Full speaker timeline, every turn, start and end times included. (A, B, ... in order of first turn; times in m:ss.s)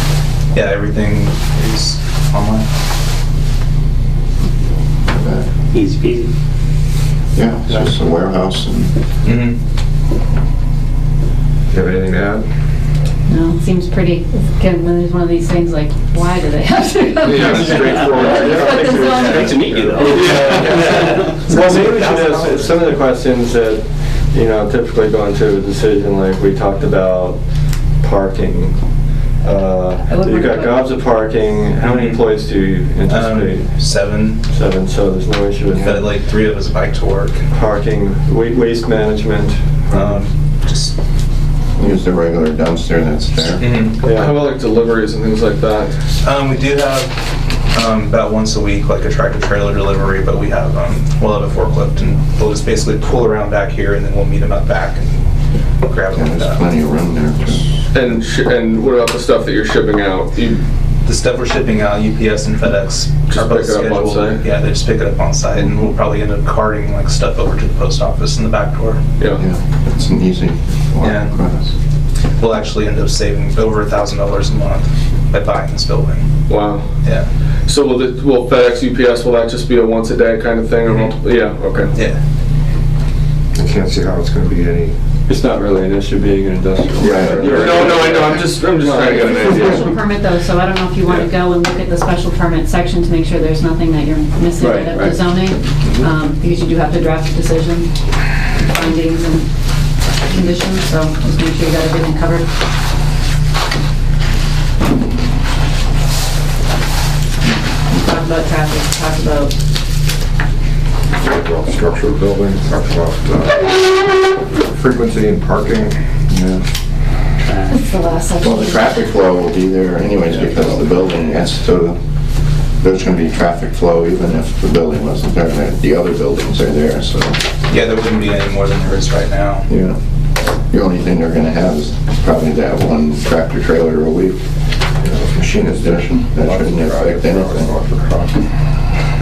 0:00.5-0:02.6 A
0:05.1-0:05.5 B
0:05.7-0:06.3 C
0:07.3-0:08.9 B
0:09.2-0:09.6 A
0:11.7-0:12.4 D
0:13.3-0:19.4 E
0:17.2-0:19.0 D
0:17.4-0:18.3 F
0:18.4-0:27.4 G
0:19.1-0:20.6 C
0:19.2-0:22.9 A
0:20.0-0:20.9 F
0:28.0-0:28.8 G
0:29.4-0:33.7 G
0:30.0-0:30.9 E
0:31.8-0:32.2 A
0:33.0-0:34.4 A
0:34.5-0:36.2 G
0:35.7-0:37.5 A
0:37.5-0:40.2 G
0:39.9-0:40.9 A
0:41.8-0:43.7 B
0:43.6-0:44.0 A
0:44.0-0:44.4 G
0:44.0-0:46.0 F
0:46.2-0:47.2 A
0:47.7-0:55.2 A
0:55.8-0:56.7 A
0:56.1-0:57.7 B
0:57.9-1:00.6 F
1:01.0-1:09.0 A
1:03.3-1:04.4 F
1:09.2-1:09.4 F
1:09.3-1:11.7 B
1:11.0-1:11.4 A
1:12.4-1:16.3 A
1:16.5-1:16.8 F
1:17.6-1:21.9 F
1:21.9-1:22.2 A
1:23.5-1:24.9 D
1:25.3-1:29.7 G
1:27.0-1:27.7 B
1:27.4-1:30.0 F
1:28.8-1:29.9 D
1:29.6-1:37.9 E
1:34.6-1:35.2 G
1:38.5-1:39.5 E
1:40.2-1:42.4 E
1:47.9-1:49.5 E
1:51.2-1:53.8 D
1:54.6-1:56.0 D
1:57.7-1:58.9 E
1:58.4-2:02.0 B
2:02.8-2:07.4 B
2:07.7-2:09.7 A
2:09.7-2:10.0 B
2:10.7-2:14.4 B
2:15.0-2:18.4 D
2:15.3-2:17.7 B